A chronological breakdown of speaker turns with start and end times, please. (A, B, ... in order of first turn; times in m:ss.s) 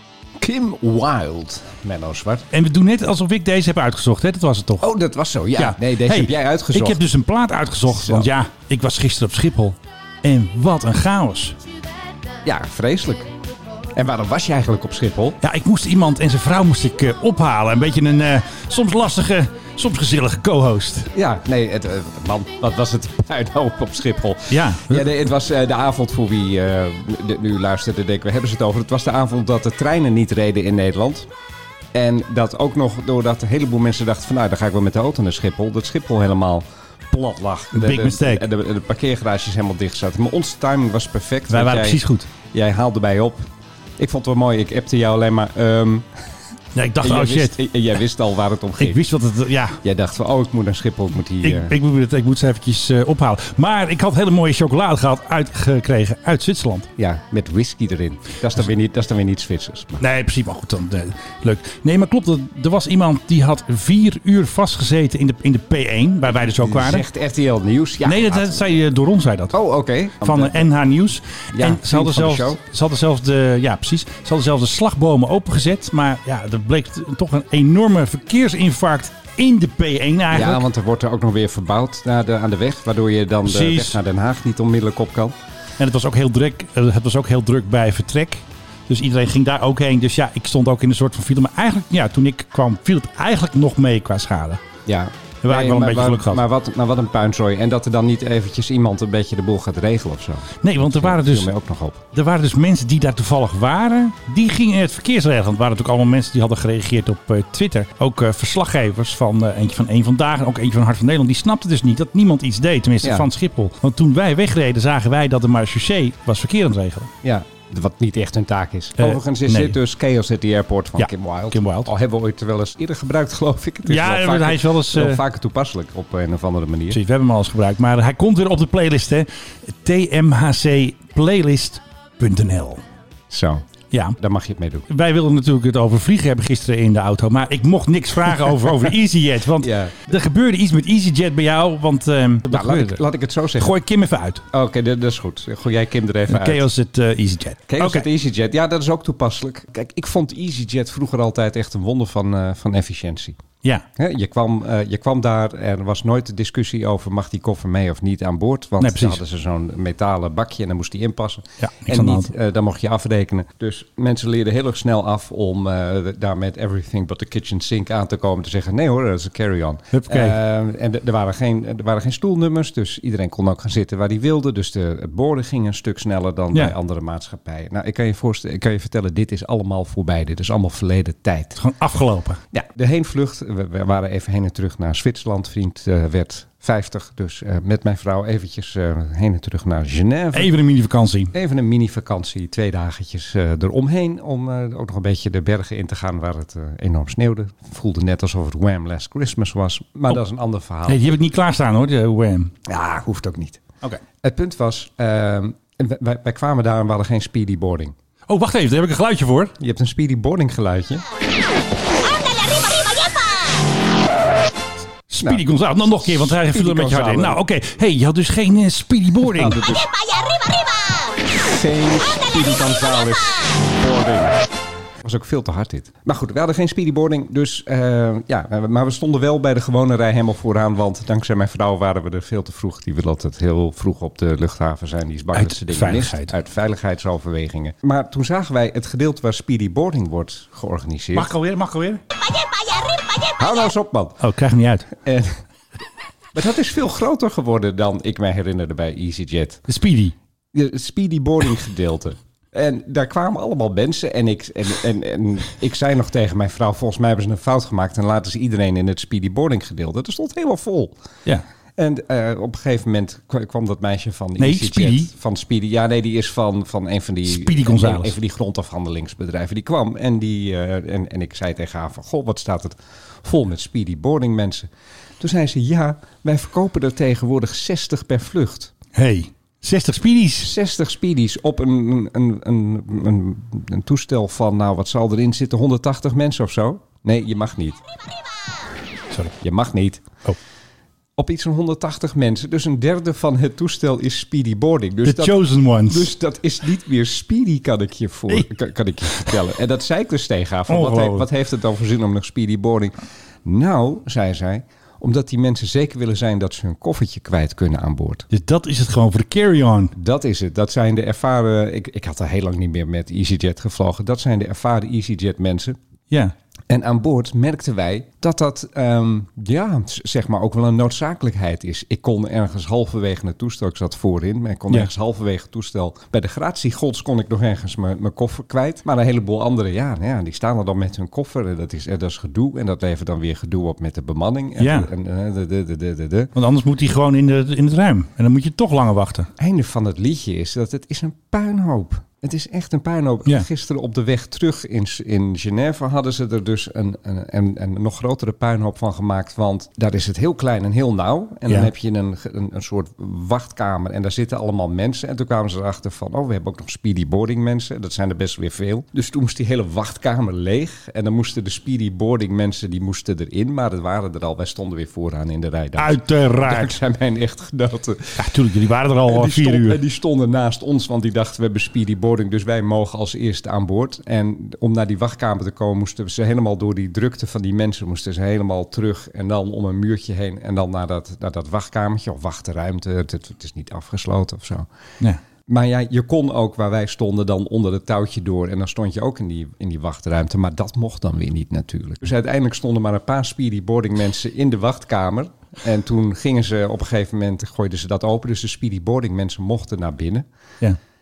0:00.4-0:02.5 A
0:02.5-0:04.9 B
0:04.8-0:07.0 A
0:05.6-0:11.6 B
0:07.9-0:08.3 A
0:12.4-0:13.3 A
0:13.9-0:15.4 A
0:15.4-0:21.1 B
0:21.1-0:31.3 A
0:24.5-0:25.1 B
0:31.9-0:43.5 A
0:37.7-0:38.5 B
0:41.5-0:42.3 B
0:44.0-0:46.0 A
0:46.7-0:47.6 B
0:47.0-0:49.1 A
0:48.8-0:49.8 B
0:49.8-0:51.7 A
0:51.4-0:56.9 B
0:57.0-1:00.0 A
1:00.0-1:07.1 B
1:06.3-1:08.7 A
1:08.0-1:09.5 B
1:09.5-1:10.7 A
1:10.2-1:20.6 B
1:11.5-1:12.6 A
1:20.3-1:25.4 A
1:23.4-1:24.0 B
1:25.8-1:34.6 B
1:34.9-1:42.0 A
1:35.4-1:36.4 B
1:40.6-1:41.5 B
1:42.1-1:57.1 B
1:53.0-1:53.3 A
1:57.2-2:07.0 A
1:59.0-1:59.8 B
2:01.0-2:01.9 B
2:03.8-2:05.2 B
2:06.9-2:12.8 B
2:13.3-2:13.6 A
2:14.2-2:14.9 A
2:14.9-2:23.0 B
2:19.6-2:20.1 A
2:22.5-2:23.8 A
2:23.6-2:24.4 B
2:24.5-2:26.6 A
2:26.3-2:28.1 B
2:27.7-2:33.4 A
2:34.0-3:01.6 A
2:38.8-2:39.2 B
2:41.6-2:42.3 B
2:49.9-2:50.4 B
3:01.6-3:02.4 B
3:02.5-3:10.5 A
3:10.3-3:11.3 B
3:11.3-3:21.1 A
3:20.9-3:22.5 B
3:22.7-3:23.6 A
3:24.2-3:27.9 A
3:28.3-3:29.6 B
3:29.6-3:31.0 A
3:35.1-3:39.6 B
3:35.2-3:37.4 A
3:39.2-3:40.0 A
3:41.2-3:44.4 A
3:45.0-4:01.3 A
3:55.3-3:56.3 B
4:01.1-4:02.0 B
4:03.2-4:04.2 A
4:04.2-4:04.9 B
4:05.0-4:05.4 A
4:06.3-4:09.6 A
4:09.7-4:10.2 B
4:10.5-4:20.9 A
4:21.8-4:34.7 A
4:24.4-4:25.1 B
4:27.3-4:28.1 B
4:35.2-4:38.7 A
4:39.0-4:40.5 B
4:40.4-4:47.8 A
4:49.4-4:50.1 A
4:51.2-5:02.9 A
4:55.0-4:56.1 B
5:00.7-5:01.3 B
5:03.4-5:08.3 A
5:08.3-5:09.9 B
5:10.0-5:15.8 A
5:16.7-5:36.3 A
5:34.6-5:34.9 B
5:36.4-5:39.3 B
5:39.4-6:08.3 A
6:05.8-6:06.8 B
6:08.2-6:09.8 B
6:09.0-6:24.7 A
6:25.5-6:40.2 A